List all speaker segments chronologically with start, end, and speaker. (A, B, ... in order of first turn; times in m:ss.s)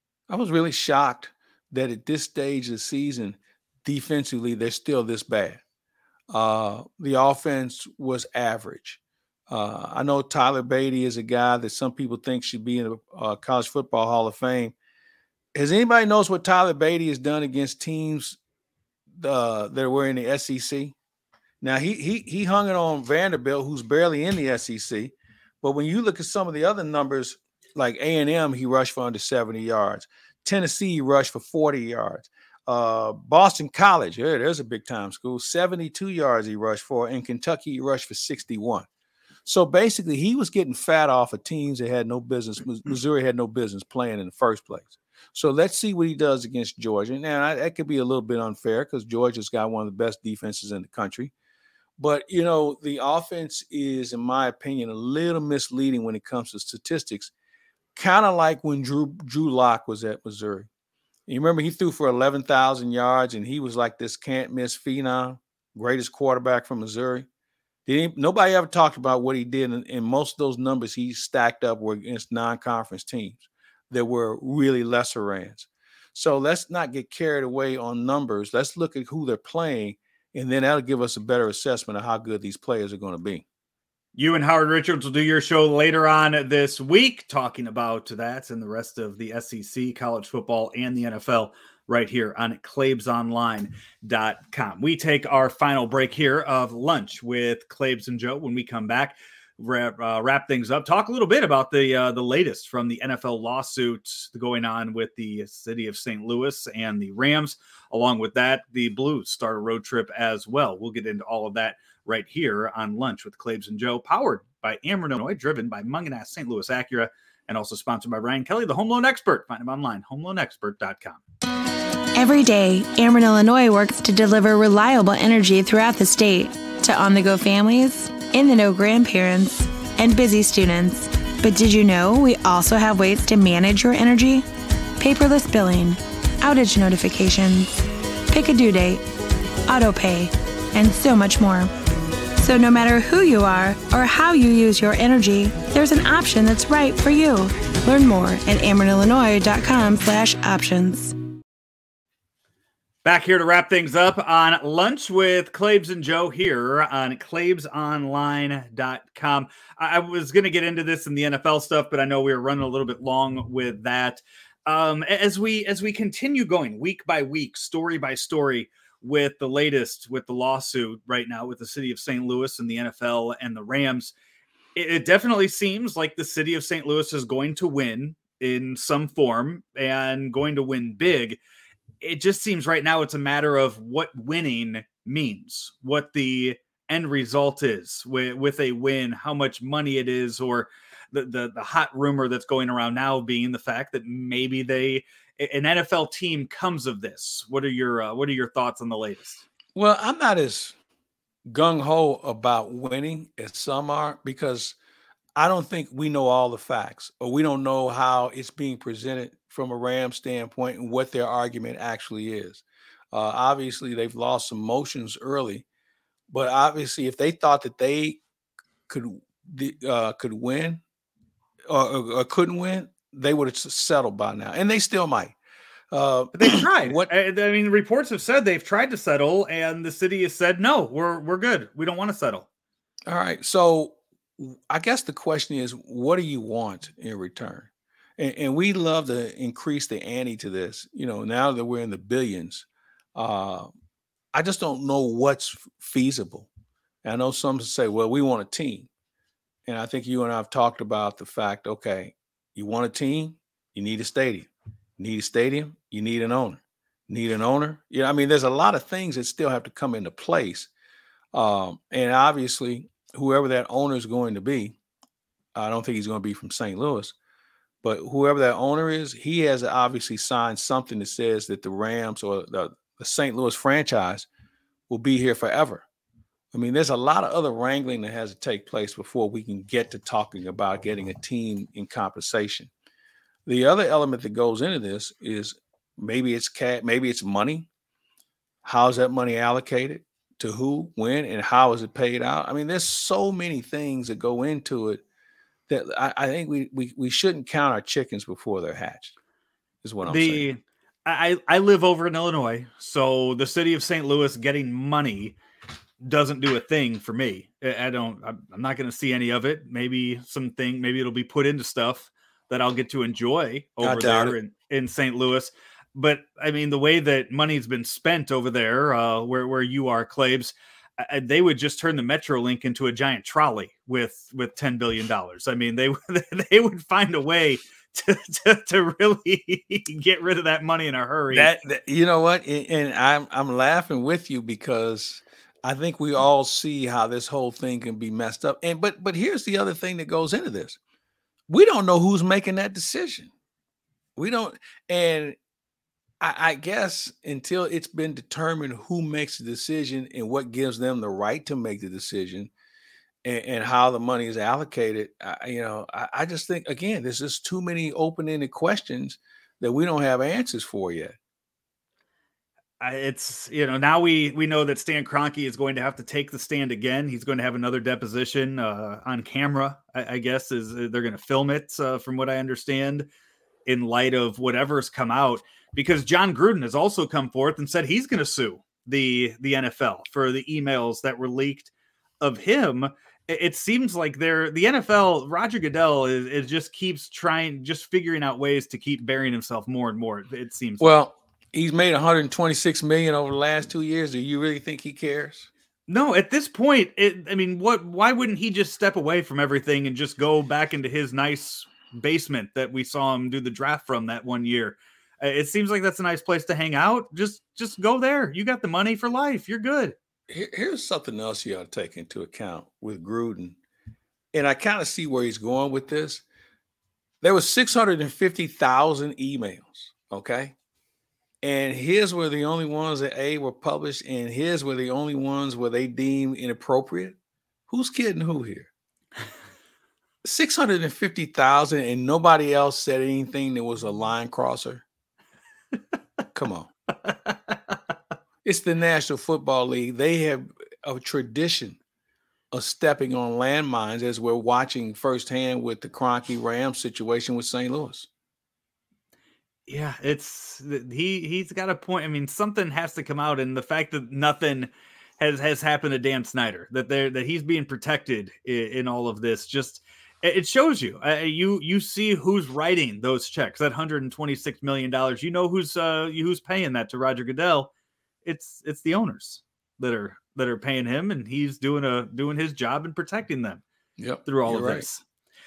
0:00.3-0:05.6 A
0:06.3-0:14.7 A
0:15.6-0:18.4 A
0:19.1-0:21.0 A
0:21.6-0:38.9 A
0:39.4-0:51.3 A
0:52.0-0:57.3 A
0:58.0-1:00.7 A
1:01.3-1:07.3 A
1:07.9-1:23.4 A
1:24.2-2:01.2 B
2:02.2-2:14.4 C
2:15.0-2:19.0 C
2:19.7-2:21.7 C
2:22.4-2:31.1 C
2:33.0-2:54.1 B
2:54.7-3:01.4 B
3:02.0-3:19.4 B
3:19.7-3:20.7 A
3:21.5-3:24.8 A
3:25.4-3:35.6 A
3:36.3-3:38.2 A
3:38.9-3:40.8 A
3:41.7-3:45.4 A
3:45.9-3:47.1 A
3:46.3-3:52.5 B
3:53.1-4:03.7 A
4:04.3-4:06.5 A
4:07.0-4:08.9 A
4:09.7-4:20.7 A
4:21.3-4:24.8 A
4:25.6-4:27.1 A
4:27.8-4:34.3 A
4:34.9-4:35.8 A
4:36.5-4:42.7 A
4:43.4-4:47.7 A
4:48.6-4:55.0 A
4:55.7-4:59.1 A
4:59.8-5:00.5 A
5:00.0-5:05.4 B
5:06.0-5:31.5 B
5:13.8-5:14.4 A
5:31.3-5:40.8 A
5:41.5-5:43.3 A
5:44.2-5:45.4 A
5:46.2-5:52.5 A
5:53.2-6:01.1 A
6:02.8-6:13.1 B
6:13.7-6:30.9 B
6:30.8-6:35.5 A
6:35.9-6:50.0 B
6:50.3-6:53.6 A
6:54.3-6:56.2 A
6:57.2-7:00.6 A
7:01.4-7:07.2 A
7:07.7-7:08.7 A
7:10.2-7:14.8 A
7:16.3-7:16.7 A
7:17.1-7:17.6 B
7:18.4-7:21.8 A
7:22.5-7:28.1 A
7:29.7-7:47.7 B
7:48.2-7:53.6 B
7:54.0-7:54.9 A
7:54.2-7:55.0 B